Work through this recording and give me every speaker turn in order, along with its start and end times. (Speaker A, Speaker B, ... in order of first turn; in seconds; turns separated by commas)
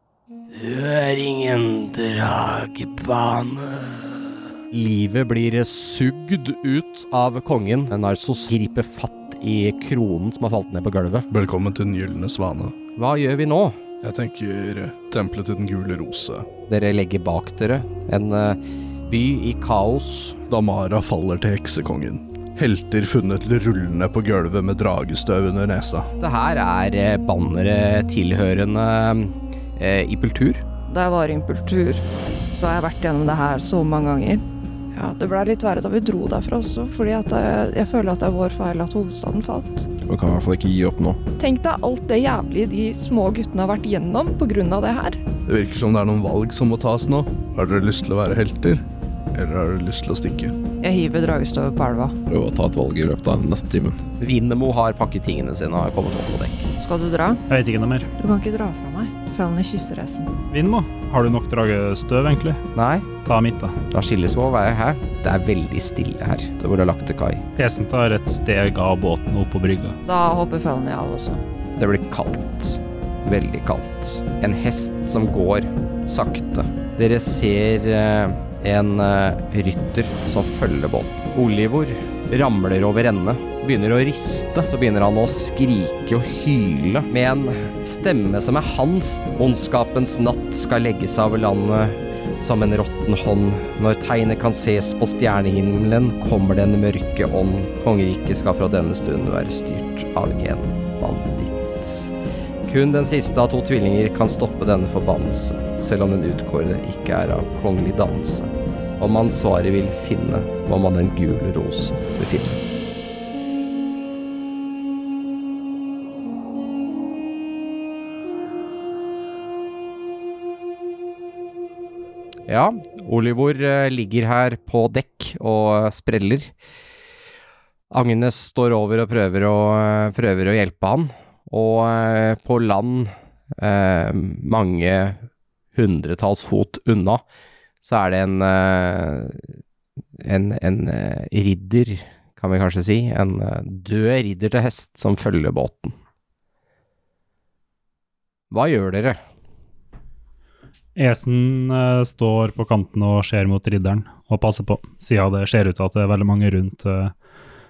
Speaker A: 0.5-11.3, Speaker B: 11.3-12.8, Speaker A: 12.9-13.8, Speaker B: 14.0-16.5, Speaker A: 16.7-20.4, Speaker B: 20.5-26.1, Speaker A: 26.2-30.6, Speaker C: 30.9-39.9, Speaker D: 40.0-41.2, Speaker C: 41.4-45.2, Speaker B: 45.5-50.5, Speaker C: 50.8-52.1, Speaker D: 52.3-54.0, Speaker A: 54.2-56.7, Speaker C: 56.8-57.4, Speaker E: 57.5-58.1, Speaker C: 58.2-60.3, Speaker E: 60.5-62.6, Speaker A: 62.7-63.1, Speaker E: 63.2-63.8, Speaker A: 63.9-67.4, Speaker E: 67.6-70.0, Speaker C: 70.0-71.4, Speaker A: 71.8-102.1, Speaker A: 102.7-112.6, Speaker A: 122.5-126.5, Speaker A: 127.9-135.2, Speaker A: 135.7-137.2, Speaker A: 137.8-139.5, Speaker A: 140.2-145.9, Speaker A: 148.5-149.2, Speaker E: 150.9-157.1